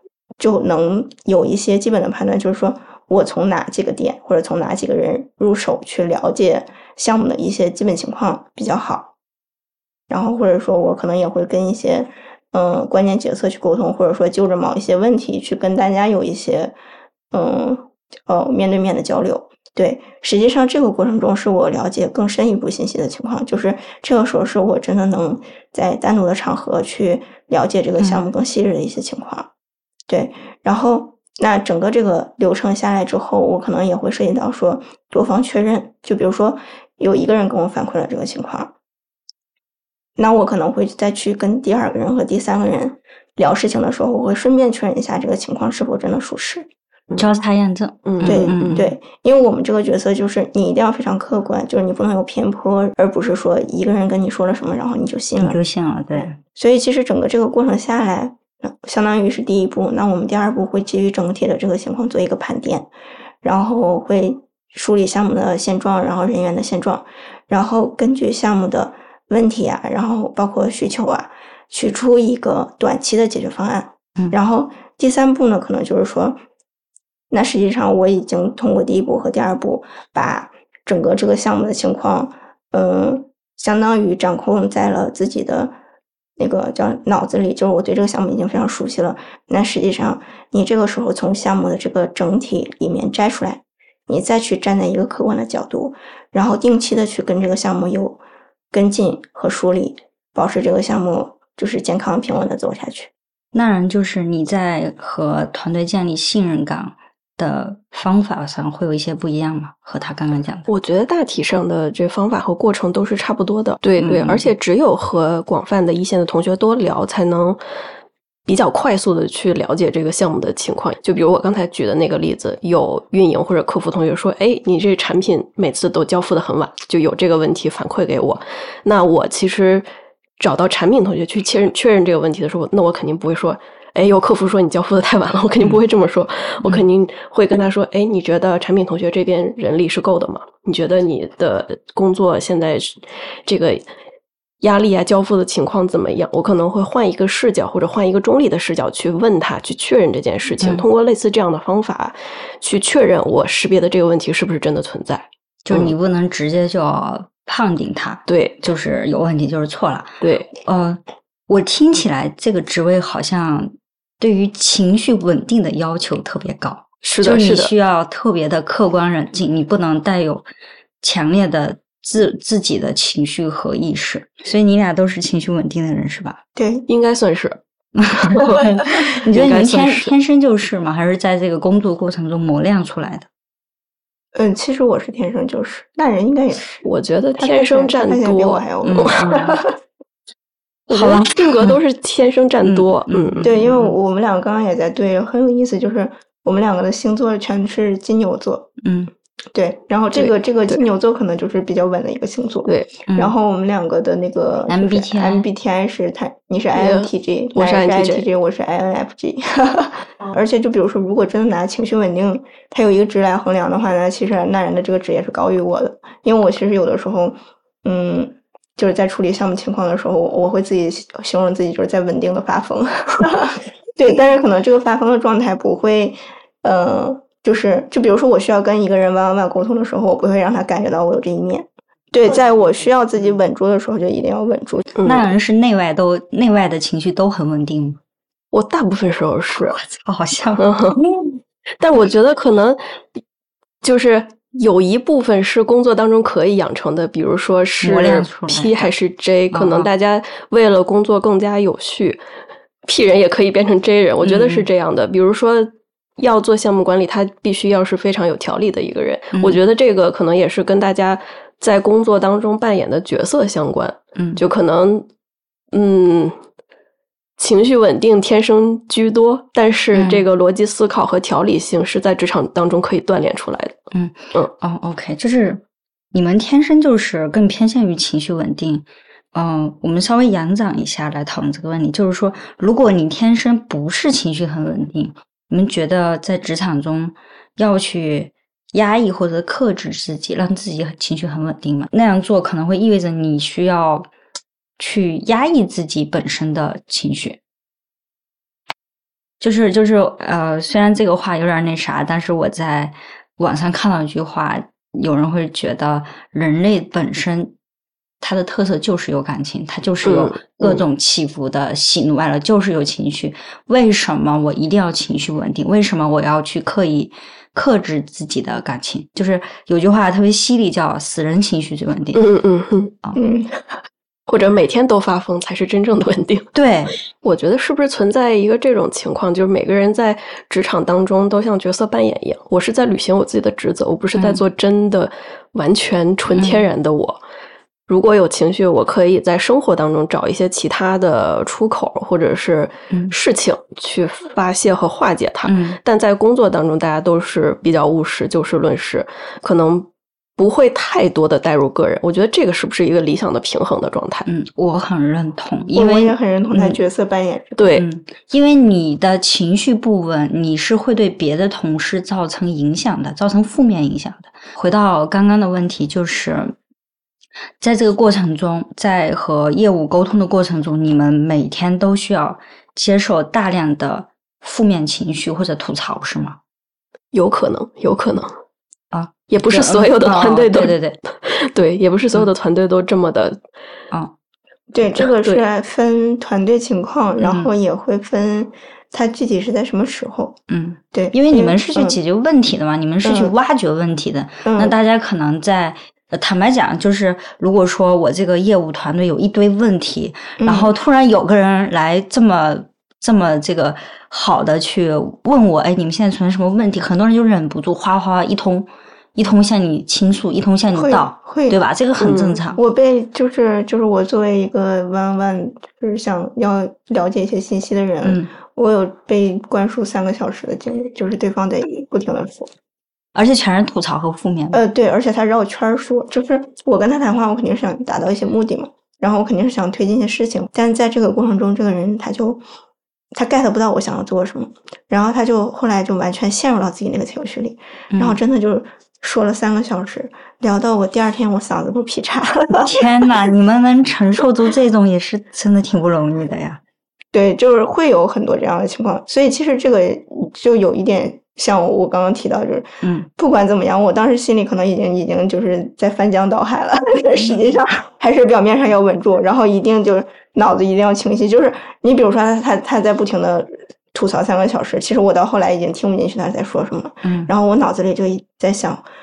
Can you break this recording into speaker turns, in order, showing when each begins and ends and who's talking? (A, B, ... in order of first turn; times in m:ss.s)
0:00.4-0:09.1 A
0:10.1-0:16.7 A
0:17.3-0:29.5 A
0:28.0-0:28.2 B
0:30.1-0:38.7 A
0:40.2-0:46.7 A
0:47.2-0:48.9 B
0:48.0-0:48.8 C
0:48.2-0:55.6 A
0:55.4-0:56.4 B
0:56.5-1:02.9 A
1:03.4-1:16.4 A
1:17.3-1:25.7 A
1:26.4-1:38.2 A
1:38.7-1:43.1 A
1:43.5-1:50.7 B
1:50.7-1:57.6 C
1:54.0-1:54.5 B
1:58.4-2:09.9 C
2:10.4-2:23.8 C
2:24.6-2:35.9 C
2:35.6-2:50.4 B
2:38.3-2:38.6 C
2:40.2-2:40.5 C
2:47.0-2:47.7 C
2:51.0-2:56.4 B
2:56.6-2:56.8 A
2:56.9-2:57.6 C
2:58.0-3:03.3 B
2:58.2-3:00.1 C
3:04.3-3:06.9 A
3:06.8-3:09.4 C
3:07.4-3:09.6 A
3:08.8-3:09.6 B
3:10.9-3:13.5 C
3:10.9-3:11.8 B
3:12.6-3:13.9 B
3:13.4-3:18.7 A
3:18.8-3:19.1 B
3:19.5-3:54.8 A
3:20.1-3:20.8 C
3:22.7-3:22.9 C
3:23.1-3:23.3 B
3:24.7-3:25.4 B
3:26.7-3:28.3 C
3:55.0-3:55.2 C
3:55.0-3:58.0 B
3:58.5-3:59.8 C
3:59.5-4:01.3 B
4:00.6-4:01.0 C
4:01.8-4:03.2 C
4:03.8-4:12.2 C
4:07.8-4:08.9 B
4:09.5-4:09.9 B
4:12.9-4:25.0 C
4:14.2-4:14.7 B
4:24.2-4:24.4 B
4:25.7-4:26.4 C
4:27.4-4:33.8 C
4:29.9-4:30.2 B
4:33.9-4:35.6 B
4:36.1-4:54.1 B
4:54.8-4:57.4 B
4:59.4-5:07.5 B
5:08.2-5:22.2 B
5:10.0-5:10.8 C
5:22.1-5:22.9 C
5:23.2-5:23.7 A
5:24.3-5:26.5 C
5:26.5-5:26.9 B
5:27.2-5:37.2 C
5:34.1-5:34.4 B
5:36.4-5:36.6 B
5:37.9-5:54.3 C
5:45.4-5:45.8 B
5:54.2-5:56.8 B
5:55.7-5:57.8 A
5:57.6-5:57.9 C
5:57.7-6:06.5 B
6:07.6-6:16.4 B
6:17.1-6:18.3 C
6:18.9-6:21.0 B
6:19.3-6:23.4 C
6:24.7-6:30.4 A
6:25.0-6:25.4 C
6:27.2-6:27.5 B
6:30.5-6:52.6 B
6:30.9-6:32.0 A
6:33.0-6:33.3 A
6:34.4-6:34.7 A
6:40.4-6:40.7 A
6:50.7-6:51.6 A
6:52.0-6:52.4 C
6:52.5-7:02.5 A
6:58.0-6:58.3 B
7:03.1-7:04.6 B
7:04.5-7:12.4 A
7:13.1-7:22.8 A
7:17.9-7:18.2 B
7:22.6-7:26.6 B
7:27.1-7:48.8 A
7:32.8-7:33.1 B
7:47.0-7:47.3 B